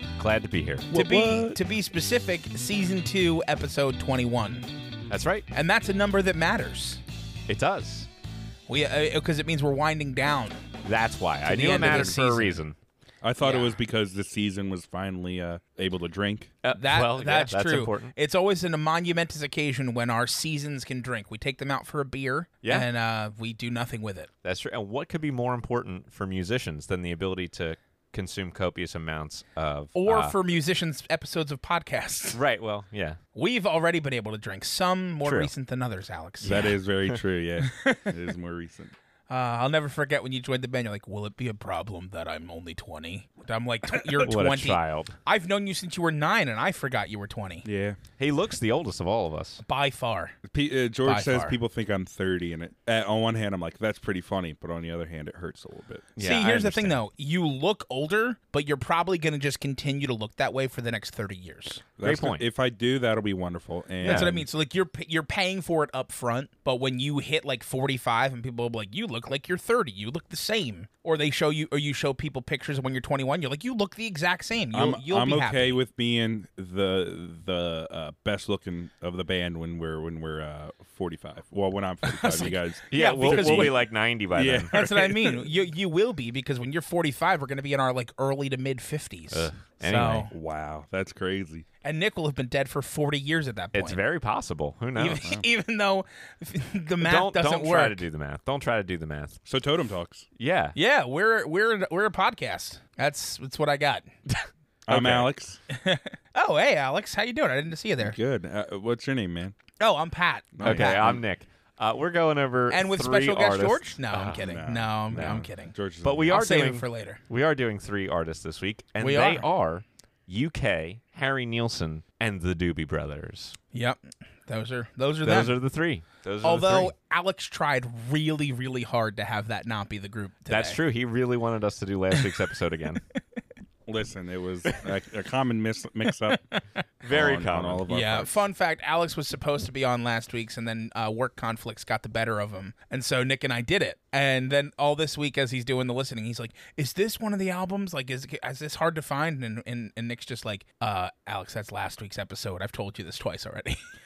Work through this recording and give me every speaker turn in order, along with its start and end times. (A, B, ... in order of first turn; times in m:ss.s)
0:00.2-0:00.9 A
0:00.9-0:04.7 B
0:00.9-0:01.6 C
0:05.1-0:05.5 A
0:05.5-0:07.0 B
0:07.5-0:08.1 A
0:08.7-0:10.6 B
0:10.8-0:12.8 A
0:11.4-0:12.6 B
0:11.7-0:12.2 C
0:13.2-0:16.5 C
0:13.4-0:13.8 B
0:16.6-0:18.1 A
0:16.7-0:24.3 B
0:22.6-0:22.9 A
0:24.4-0:30.4 A
0:29.9-0:32.4 B
0:32.3-0:33.2 A
0:33.4-0:36.6 B
0:35.2-0:35.5 A
0:36.4-0:37.2 A
0:36.4-0:38.9 C
0:37.6-0:38.1 B
0:39.3-0:47.7 B
0:44.2-0:45.2 A
0:47.6-0:48.0 C
0:48.2-0:49.6 A
0:49.6-0:50.4 B
0:50.4-0:56.1 C
0:51.0-0:51.6 B
0:56.2-0:57.0 A
0:56.2-1:01.8 B
1:02.0-1:04.5 C
1:02.0-1:02.4 A
1:04.0-1:04.3 A
1:04.0-1:15.8 B
1:14.7-1:23.8 C
1:22.0-1:23.8 B
1:22.9-1:24.7 A
1:24.3-1:25.5 C
1:24.7-1:30.3 B
1:29.3-1:30.3 A
1:30.0-1:31.6 C
1:31.8-1:34.0 B
1:33.8-1:35.3 A
1:35.0-1:38.0 B
1:37.0-1:39.4 A
1:39.4-1:40.3 C
1:40.4-1:40.8 A
1:40.8-1:44.1 B
1:44.9-1:45.6 C
1:44.9-1:45.3 A
1:45.7-1:48.2 B
1:48.0-1:49.5 C
1:49.8-1:51.2 B
1:50.6-1:51.2 C
1:50.6-1:54.5 A
1:52.7-1:55.8 B
1:54.3-1:56.3 C
1:55.1-1:55.5 A
1:56.0-2:03.6 A
1:56.3-1:57.2 B
1:59.0-1:59.5 B
2:03.7-2:05.6 B
2:05.2-2:06.9 A
2:06.4-2:10.8 B
2:10.5-2:13.0 A
2:13.9-2:16.5 C
2:16.5-2:16.8 B
2:17.0-2:17.8 A
2:17.0-2:18.4 C
2:17.9-2:33.8 B